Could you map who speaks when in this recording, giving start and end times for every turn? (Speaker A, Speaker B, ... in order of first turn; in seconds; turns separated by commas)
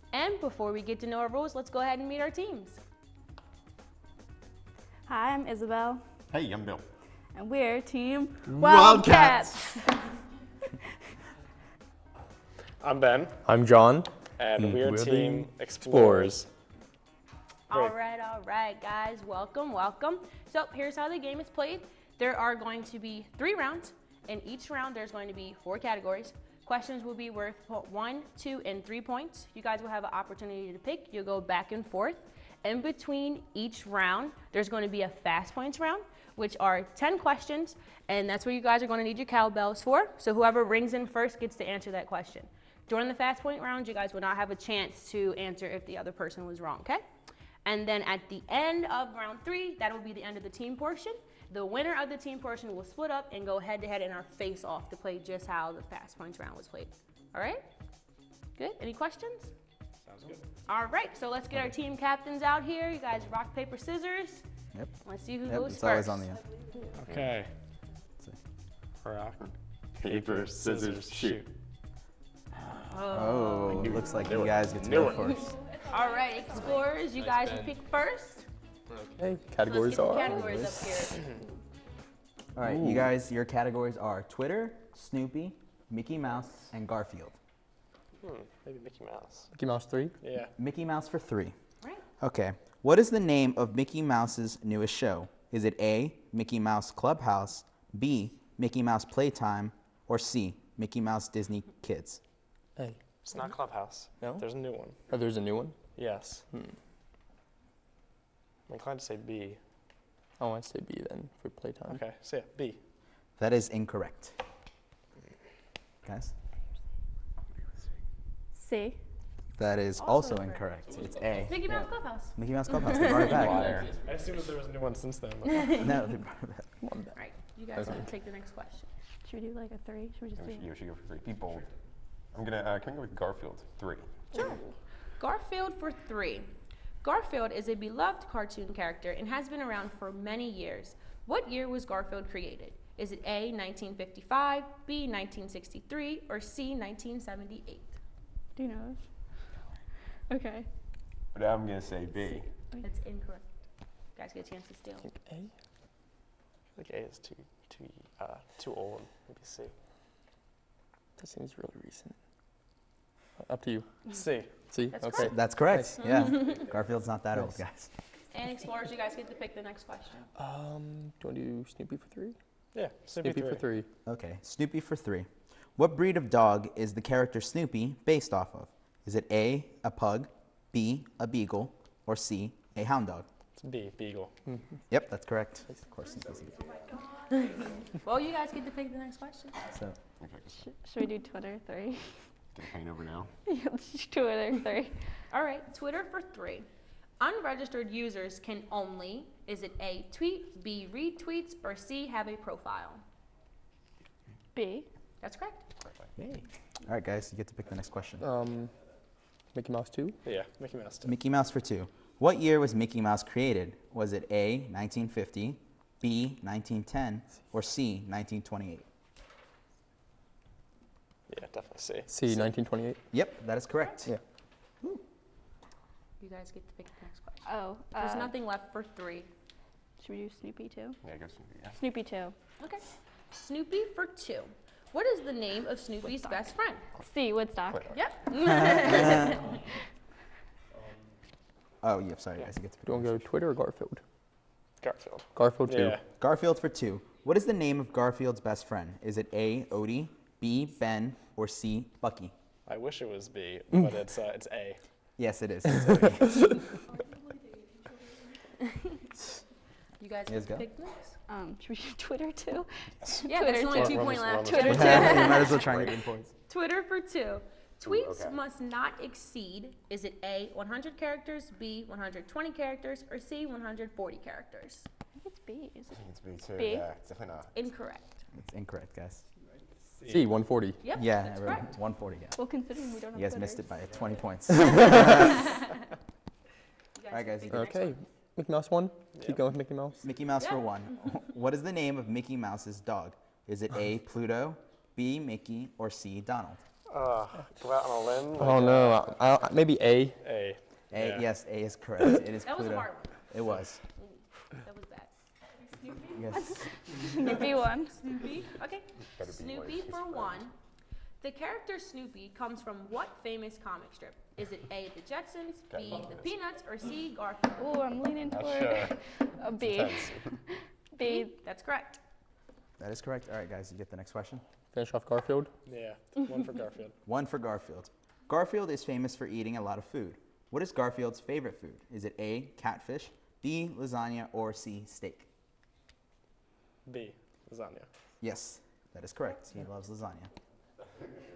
Speaker A: 0.1-2.8, Speaker B: 5.1-6.1, Speaker C: 6.3-6.8, Speaker B: 7.3-9.9, Speaker C: 8.5-9.8, Speaker D: 12.8-13.4, Speaker E: 13.4-16.4, Speaker D: 14.4-16.5, Speaker A: 17.7-47.0, Speaker D: 17.7-17.9, Speaker A: 47.6-57.7, Speaker A: 58.5-59.5, Speaker D: 60.0-60.4, Speaker A: 60.7-64.4, Speaker F: 64.7-66.4, Speaker A: 65.0-66.8, Speaker D: 67.0-67.5, Speaker D: 69.0-69.4, Speaker C: 69.4-71.5, Speaker D: 70.0-71.5, Speaker A: 72.9-74.0, Speaker F: 73.1-75.5, Speaker C: 73.7-75.6, Speaker B: 75.7-77.0, Speaker A: 75.9-78.5, Speaker E: 78.9-81.0, Speaker A: 79.6-81.2, Speaker F: 82.5-87.3, Speaker E: 82.6-83.1, Speaker D: 88.2-89.5, Speaker E: 89.5-90.2, Speaker D: 90.2-90.5, Speaker F: 90.6-91.5, Speaker F: 92.2-102.2, Speaker D: 103.2-105.0, Speaker E: 104.2-104.4, Speaker E: 105.1-105.8, Speaker D: 106.0-106.5, Speaker E: 106.5-106.8, Speaker D: 108.7-109.6, Speaker E: 110.4-112.0, Speaker D: 111.9-112.8, Speaker F: 113.4-114.3, Speaker F: 116.0-116.3, Speaker B: 118.5-119.0, Speaker F: 119.6-123.8, Speaker A: 120.0-120.6, Speaker A: 121.3-123.4, Speaker C: 123.2-124.0, Speaker D: 123.8-125.8, Speaker A: 125.4-125.9, Speaker F: 125.8-126.7, Speaker E: 126.8-127.1, Speaker A: 127.2-128.9, Speaker B: 129.2-130.7, Speaker C: 130.3-131.7, Speaker C: 132.3-134.4, Speaker B: 134.3-134.7, Speaker A: 134.3-134.6, Speaker A: 135.2-136.5, Speaker A: 137.0-147.9, Speaker B: 148.5-149.5, Speaker B: 150.3-150.7, Speaker C: 151.3-152.5, Speaker A: 152.8-153.4, Speaker A: 154.1-155.0, Speaker E: 155.0-155.5, Speaker D: 156.8-159.7, Speaker E: 161.2-162.1, Speaker E: 163.4-164.0, Speaker D: 164.1-164.5, Speaker E: 164.7-166.0, Speaker A: 164.9-165.3, Speaker F: 165.2-167.9, Speaker A: 166.0-166.6, Speaker A: 168.3-170.3, Speaker E: 170.4-172.3, Speaker D: 172.7-173.8, Speaker E: 173.2-173.8, Speaker F: 174.1-183.2, Speaker D: 183.6-184.3, Speaker F: 184.9-186.6, Speaker A: 187.3-189.6, Speaker F: 189.7-190.0, Speaker C: 190.2-190.7, Speaker B: 190.6-192.2, Speaker C: 192.5-193.3, Speaker B: 193.5-195.2, Speaker A: 195.3-196.7, Speaker A: 197.2-203.0, Speaker B: 204.5-204.9, Speaker A: 205.2-205.6, Speaker F: 206.2-208.2, Speaker E: 208.2-208.7, Speaker E: 209.5-210.2, Speaker D: 210.2-211.1, Speaker F: 211.0-218.8, Speaker D: 221.3-222.5, Speaker E: 222.1-223.0, Speaker F: 223.1-224.1, Speaker A: 226.2-229.3, Speaker B: 227.4-228.3, Speaker B: 230.0-231.0, Speaker C: 231.0-231.8, Speaker B: 231.8-232.3, Speaker A: 232.6-236.8, Speaker B: 236.1-236.3, Speaker C: 236.9-238.0, Speaker B: 237.0-237.9, Speaker A: 237.9-239.6, Speaker F: 238.6-239.3, Speaker F: 241.8-243.2, Speaker E: 242.8-244.0, Speaker D: 244.8-246.0, Speaker E: 245.3-246.0, Speaker F: 246.2-252.3, Speaker D: 252.7-254.8, Speaker F: 255.2-256.6, Speaker A: 260.0-261.2, Speaker F: 260.3-260.7, Speaker B: 261.3-265.6, Speaker C: 263.0-266.3, Speaker A: 263.2-265.6, Speaker F: 264.7-266.2, Speaker A: 266.5-274.9, Speaker C: 267.8-268.4, Speaker B: 275.2-276.0, Speaker C: 275.9-277.5, Speaker B: 276.5-276.9, Speaker A: 277.5-278.2, Speaker F: 278.3-279.2, Speaker D: 280.0-280.3, Speaker E: 280.1-280.8, Speaker A: 280.8-281.7, Speaker F: 280.9-282.4, Speaker B: 282.4-283.8, Speaker F: 283.1-285.4, Speaker A: 285.5-285.8, Speaker A: 287.0-288.0, Speaker F: 287.1-287.7, Speaker E: 287.5-290.0, Speaker D: 289.1-289.4, Speaker F: 290.0-296.6, Speaker A: 290.4-290.7, Speaker D: 296.9-299.2, Speaker E: 298.4-300.2, Speaker D: 300.2-301.3, Speaker F: 300.9-303.8, Speaker A: 302.4-303.3, Speaker A: 304.0-305.1, Speaker F: 306.1-306.7, Speaker B: 306.3-308.0, Speaker A: 308.0-310.5, Speaker C: 309.1-310.5, Speaker A: 311.2-317.8, Speaker C: 315.7-316.3, Speaker B: 317.6-321.4, Speaker C: 318.2-320.4, Speaker A: 321.0-322.0, Speaker F: 322.8-324.4, Speaker E: 324.7-325.5, Speaker D: 325.7-326.9, Speaker F: 327.1-335.3, Speaker D: 336.9-337.9, Speaker F: 338.2-340.3